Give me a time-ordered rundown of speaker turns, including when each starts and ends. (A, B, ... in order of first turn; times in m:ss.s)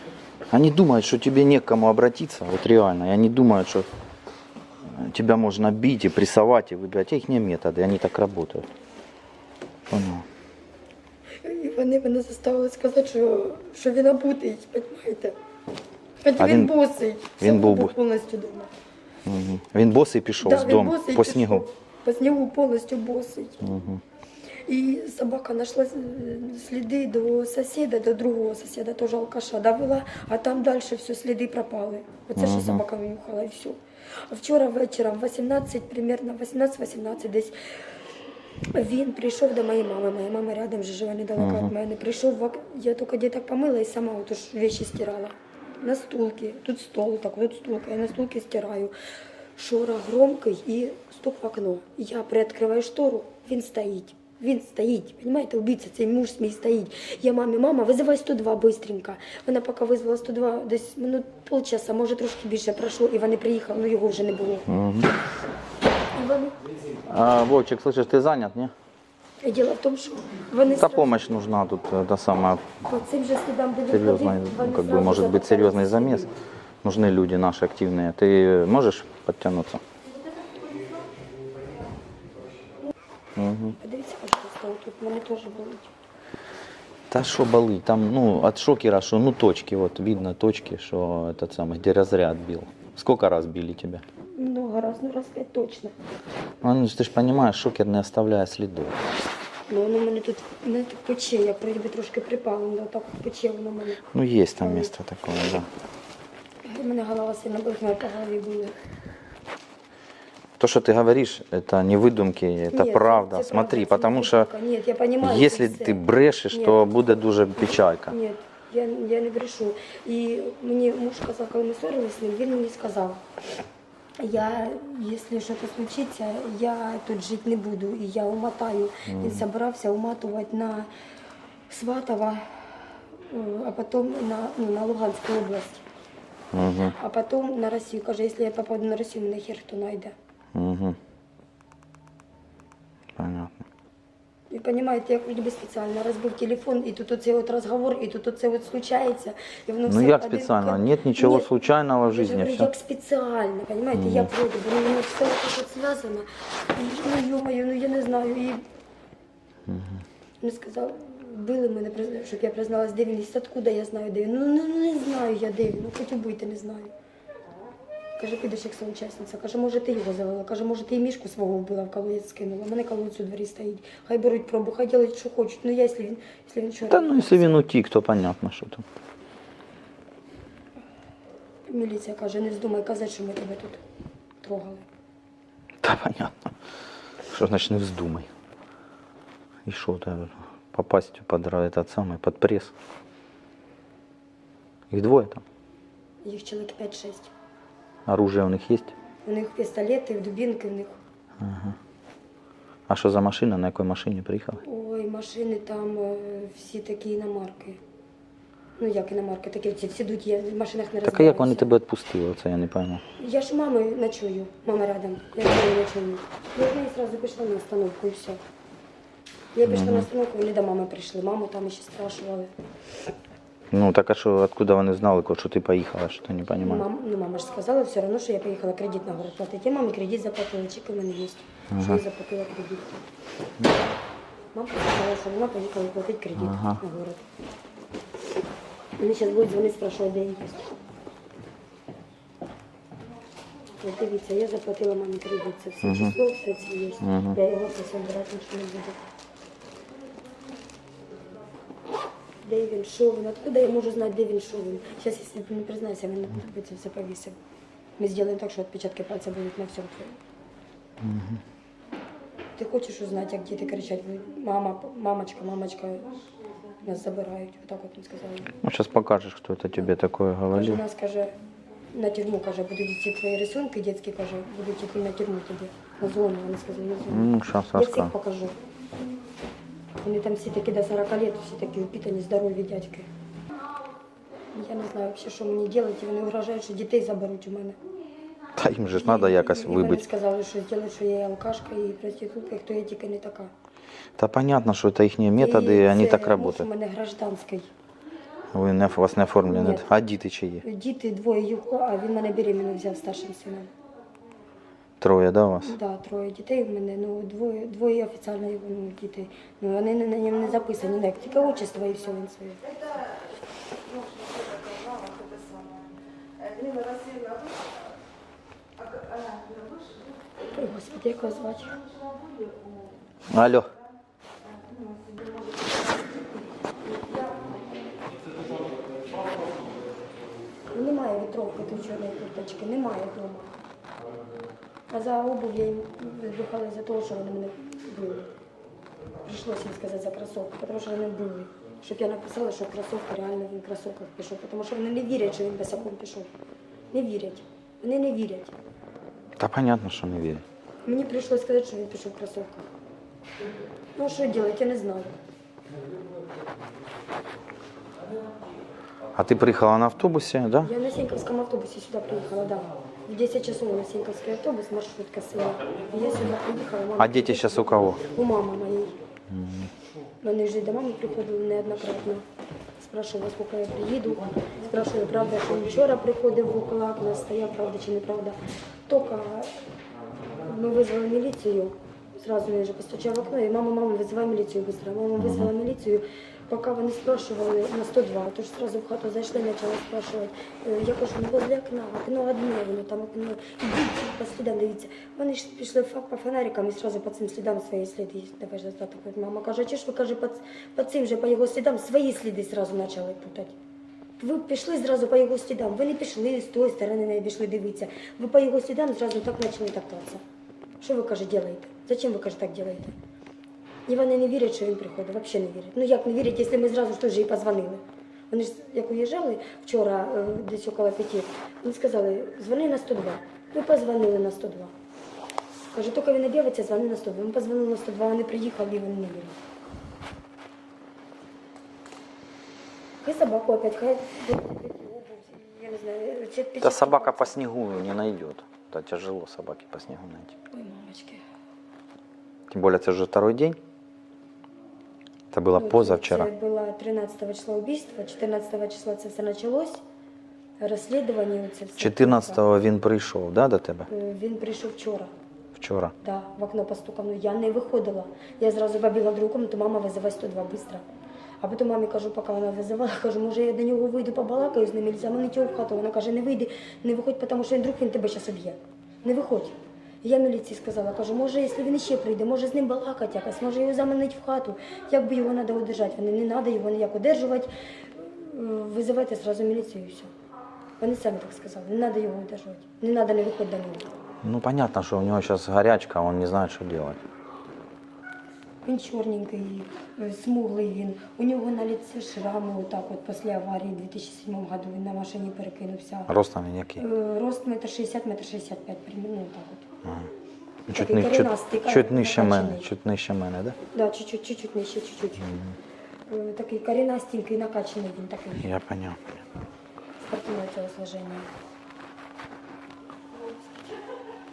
0:00.5-0:03.9 A
0:04.8-0:08.7 A
0:09.9-0:10.3 A
0:11.4-0:15.4 B
0:16.2-0:18.7 B
0:16.4-0:16.8 A
0:17.4-0:17.9 A
0:19.2-0:21.7 A
0:20.4-0:23.6 B
0:23.6-0:24.0 A
0:24.6-0:37.8 B
0:32.4-0:32.8 A
0:38.7-0:48.9 B
0:41.4-0:41.7 A
0:49.6-1:04.7 B
1:04.7-1:05.1 A
1:06.1-1:06.6 B
1:07.0-1:08.7 A
1:09.4-1:11.2 B
1:10.8-1:12.7 A
1:12.8-1:16.3 B
1:13.9-1:16.3 A
1:16.8-1:19.8 A
1:23.4-1:23.8 A
1:23.8-1:25.9 B
1:27.1-1:34.0 A
1:34.4-1:36.0 B
1:36.6-1:39.0 A
1:39.7-1:44.0 B
1:44.1-1:45.7 A
1:44.6-1:44.9 B
1:46.6-1:48.8 B
1:50.6-1:54.5 A
1:52.7-1:56.8 B
1:55.2-1:58.2 A
1:57.6-2:03.2 B
2:04.2-2:10.9 B
2:09.1-2:09.4 A
2:11.7-2:15.8 B
2:16.5-2:17.0 A
2:17.0-2:20.1 B
2:20.5-2:21.0 A
2:23.2-2:23.6 A
2:24.5-2:31.5 B
2:29.9-2:32.7 A
2:32.0-2:38.6 B
2:33.9-2:34.3 A
2:39.7-2:40.0 A
2:40.4-2:46.9 B
2:48.2-2:57.6 B
2:56.9-2:58.8 A
3:01.7-3:03.8 B
3:04.4-3:04.8 B
3:05.8-3:06.5 A
3:07.3-3:08.3 A
3:09.6-3:12.7 A
3:14.9-3:15.4 A
3:16.2-3:17.3 B
3:18.1-3:18.9 A
3:19.2-3:21.0 B
3:21.4-3:21.8 A
3:22.9-3:24.6 A
3:24.6-3:27.8 B
3:28.8-3:31.8 B
3:31.0-3:33.0 A
3:33.2-3:38.4 B
3:39.6-3:42.5 B
3:39.7-3:40.1 A
3:43.7-3:46.9 A
3:46.6-3:52.9 B
3:51.7-3:52.0 A
3:54.5-3:57.3 B
3:56.4-3:56.8 A
3:59.0-4:00.8 B
4:03.8-4:09.0 B
4:05.8-4:06.2 A
4:07.0-4:07.4 A
4:12.4-4:17.4 B
4:18.0-4:20.2 B
4:21.0-4:21.4 A
4:22.6-4:26.3 B
4:26.8-4:28.6 B
4:28.6-4:30.8 A
4:30.5-4:31.3 B
4:31.9-4:38.6 B
4:37.1-4:38.1 A
4:40.0-4:43.1 B
4:44.5-4:47.8 B
4:48.6-4:50.1 A
4:48.9-4:53.5 B
4:54.2-4:56.7 A
4:55.4-4:57.7 B
4:58.5-5:00.6 A
4:59.5-4:59.9 B
5:00.6-5:03.7 B
5:05.0-5:05.7 A
5:05.6-5:12.9 B
5:20.4-5:21.8 B
5:23.3-5:23.7 A
5:26.8-5:27.5 B
5:30.7-5:33.5 B
5:34.9-5:38.3 B
5:39.2-5:46.3 B
5:46.9-5:48.5 B
5:49.4-5:50.4 A
5:50.8-5:52.7 B
5:54.0-5:55.2 B
5:59.2-6:00.7 A
6:00.6-6:09.0 B
6:07.0-6:08.0 A
6:09.3-6:09.7 A
6:10.2-6:12.2 B
6:12.8-6:19.6 B
6:20.4-6:43.6 B
6:25.2-6:25.5 A
6:44.2-6:50.2 B
6:50.8-6:53.0 B
6:53.9-7:04.7 B
7:05.7-7:09.4 B
7:13.0-7:17.3 B
7:16.6-7:20.4 A
7:20.5-7:21.2 B
7:22.5-7:23.6 A
7:25.3-7:26.3 A
7:25.6-7:29.8 B
7:30.6-7:32.4 B
7:31.8-7:33.9 A
7:33.9-7:35.1 B
7:35.6-7:35.9 A
7:36.0-7:40.8 B
7:41.4-8:00.1 B
8:00.8-8:03.9 B
8:04.2-8:07.0 A
8:08.6-8:16.1 B
8:16.1-8:16.8 A
8:16.8-8:19.7 B
8:19.8-8:20.1 A
8:20.7-8:23.6 A
8:20.7-8:22.7 B
8:23.7-8:25.4 B
8:25.2-8:25.5 A
8:26.1-8:28.4 B
8:28.4-8:29.0 A
8:30.0-8:31.3 B
8:33.2-8:33.7 B